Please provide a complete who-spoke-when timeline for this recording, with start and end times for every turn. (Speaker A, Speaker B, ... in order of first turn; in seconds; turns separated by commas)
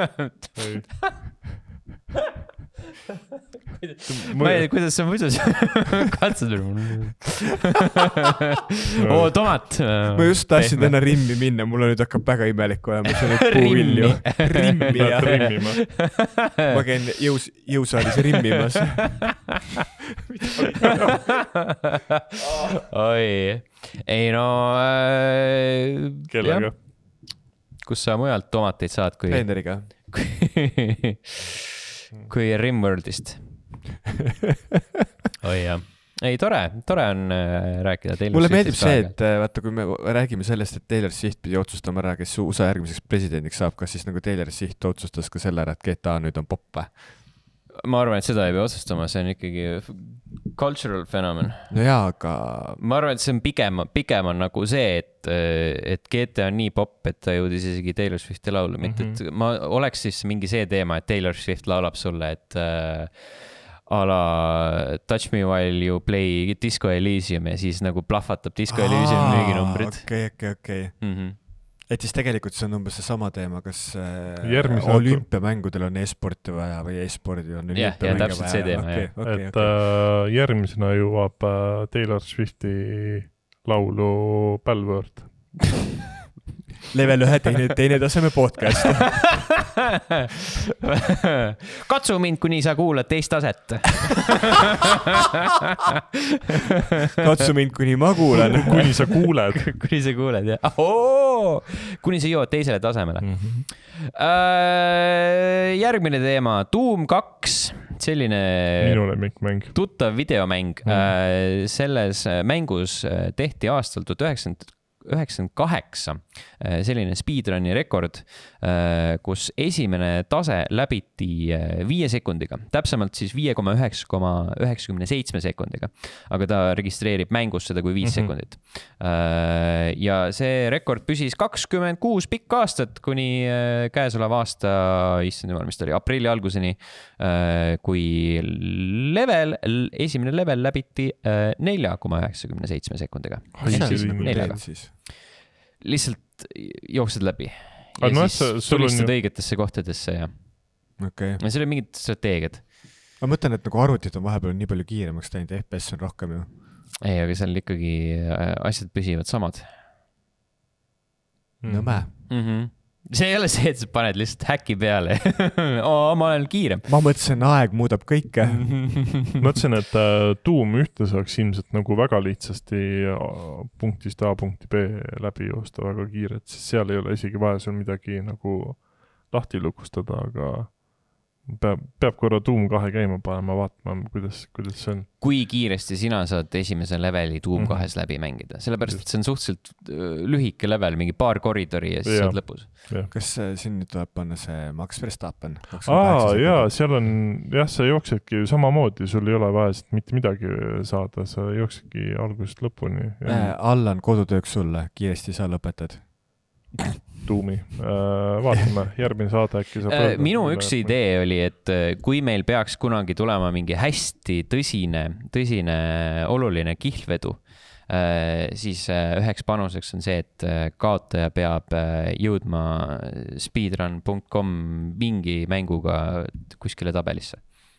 Speaker A: 0.5-1.3, Speaker B: 3.8-7.7, Speaker A: 4.1-4.9, Speaker A: 9.0-9.3, Speaker B: 9.0-11.2, Speaker C: 10.1-15.9, Speaker B: 13.5-16.7, Speaker A: 14.9-15.8, Speaker C: 16.7-19.5, Speaker A: 20.6-21.4, Speaker B: 22.5-26.2, Speaker A: 26.3-26.8, Speaker C: 26.4-26.7, Speaker B: 27.8-31.4, Speaker C: 29.3-29.9, Speaker B: 32.3-33.8, Speaker B: 35.4-39.1, Speaker C: 38.3-47.2, Speaker B: 47.7-51.7, Speaker C: 51.7-52.8, Speaker B: 52.8-71.4, Speaker A: 58.8-59.2, Speaker C: 68.7-79.8, Speaker A: 74.4-75.3, Speaker B: 77.7-79.1, Speaker A: 79.2-85.7, Speaker C: 86.9-89.5, Speaker B: 90.8-94.5, Speaker C: 97.2-99.1, Speaker A: 98.5-99.7, Speaker B: 99.5-145.2, Speaker A: 103.2-103.7, Speaker A: 108.8-109.8, Speaker A: 110.8-111.1, Speaker A: 128.0-128.3, Speaker A: 143.6-144.5, Speaker C: 143.6-144.9, Speaker B: 145.8-152.7, Speaker A: 148.0-149.1, Speaker C: 151.0-151.4, Speaker C: 153.2-156.5, Speaker B: 157.0-159.7, Speaker A: 161.6-162.1, Speaker C: 161.6-162.1, Speaker B: 162.3-166.9, Speaker C: 166.9-169.2, Speaker A: 169.3-185.1, Speaker B: 185.2-192.7, Speaker A: 187.5-189.1, Speaker A: 192.0-193.1, Speaker C: 193.1-196.8, Speaker A: 195.8-203.5, Speaker C: 203.2-206.1, Speaker A: 207.2-210.9, Speaker B: 209.9-227.5